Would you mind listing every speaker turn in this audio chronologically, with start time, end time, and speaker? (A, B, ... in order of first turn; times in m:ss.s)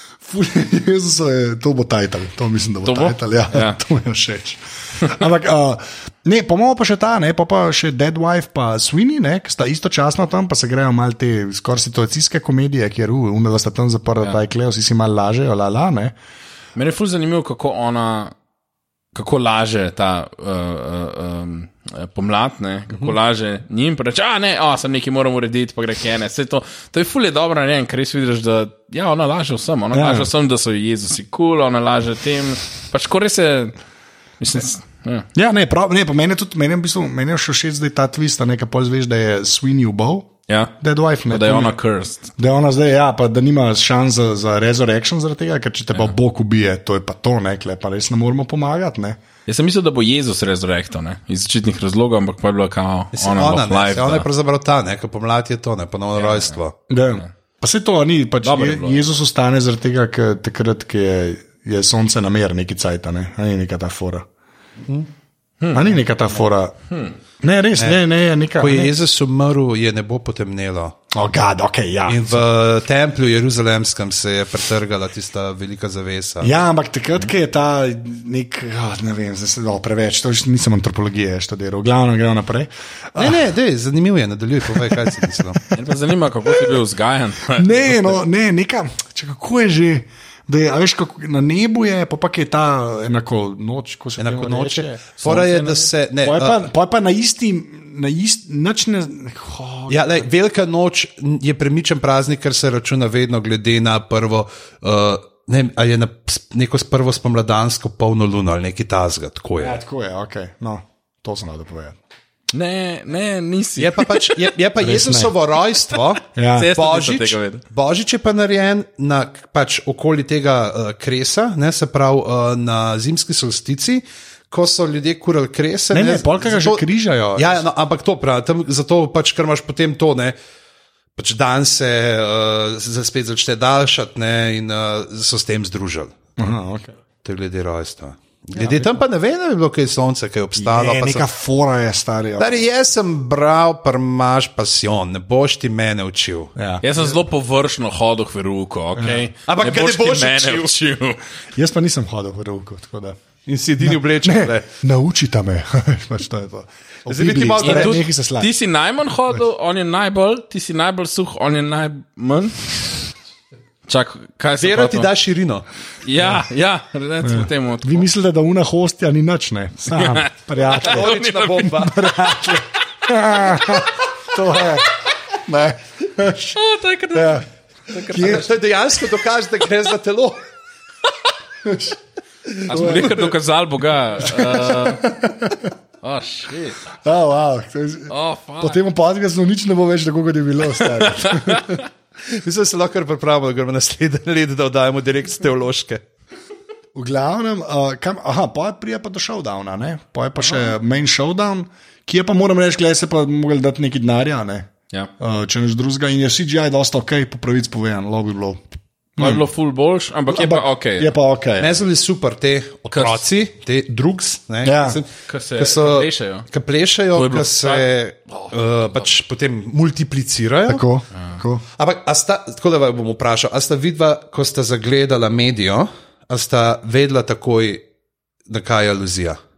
0:00.2-0:16.1 A
0:02.8-0:03.8 B
0:16.8-0:18.3 B
0:19.1-0:33.7 B
0:29.9-0:30.3 A
0:34.4-0:35.3 B
0:35.3-0:41.8 A
0:40.5-0:40.7 B
0:41.3-0:42.3 B
0:42.4-0:49.2 A
0:49.4-0:54.2 B
0:53.1-0:56.8 C
0:56.1-0:56.6 B
0:56.9-1:04.3 A
0:58.4-0:59.0 B
1:05.6-1:05.8 B
1:05.7-1:06.7 A
1:06.9-1:07.2 B
1:07.4-1:09.0 A
1:08.6-1:11.0 C
1:11.1-1:12.4 A
1:12.1-1:16.6 C
1:16.4-1:23.4 A
1:23.2-1:25.6 C
1:24.7-1:25.4 A
1:25.7-1:28.2 B
1:27.5-1:35.0 A
1:34.2-1:36.6 C
1:35.2-1:35.9 B
1:36.2-1:40.2 A
1:39.9-1:49.8 C
1:49.6-1:52.0 A
1:52.5-1:54.5 B
1:53.8-2:10.4 C
1:54.8-1:55.3 A
1:56.4-1:56.7 A
1:56.5-1:57.6 B
2:05.9-2:07.6 A
2:11.2-2:16.1 C
2:16.4-2:17.0 A
2:17.2-2:21.3 C
2:18.6-2:19.0 A
2:20.6-2:22.6 A
2:22.4-2:26.5 C
2:26.6-2:27.0 A
2:26.8-2:31.2 B
2:29.0-2:29.2 A
2:29.4-2:30.8 C
2:31.6-2:33.2 A
2:33.4-2:34.7 C
2:33.8-2:38.5 A
2:37.1-2:38.0 C
2:37.6-2:42.9 B
2:43.9-2:45.1 B
2:44.6-2:45.7 C
2:46.0-2:48.1 B
2:47.2-2:56.6 A
2:50.0-2:51.7 B
2:50.6-2:52.6 C
2:56.5-2:58.6 B
2:57.1-2:57.4 A
2:58.0-2:58.5 A
2:58.2-3:00.4 C
3:01.6-3:02.0 A
3:02.5-3:03.3 C
3:02.7-3:05.2 B
3:02.7-3:03.2 A
3:04.2-3:05.7 A
3:06.0-3:06.8 B
3:07.0-3:11.8 A
3:08.1-3:08.8 B
3:10.8-3:11.8 B
3:12.3-3:16.0 C
3:16.9-3:28.6 A
3:29.2-3:29.4 A
3:29.2-3:31.1 B
3:30.3-3:31.8 A
3:31.6-3:40.8 C
3:32.9-3:33.2 B
3:34.6-3:35.0 A
3:35.3-3:36.5 B
3:37.1-3:38.5 B
3:40.7-3:41.6 A
3:41.8-3:47.8 C
3:48.5-3:49.4 C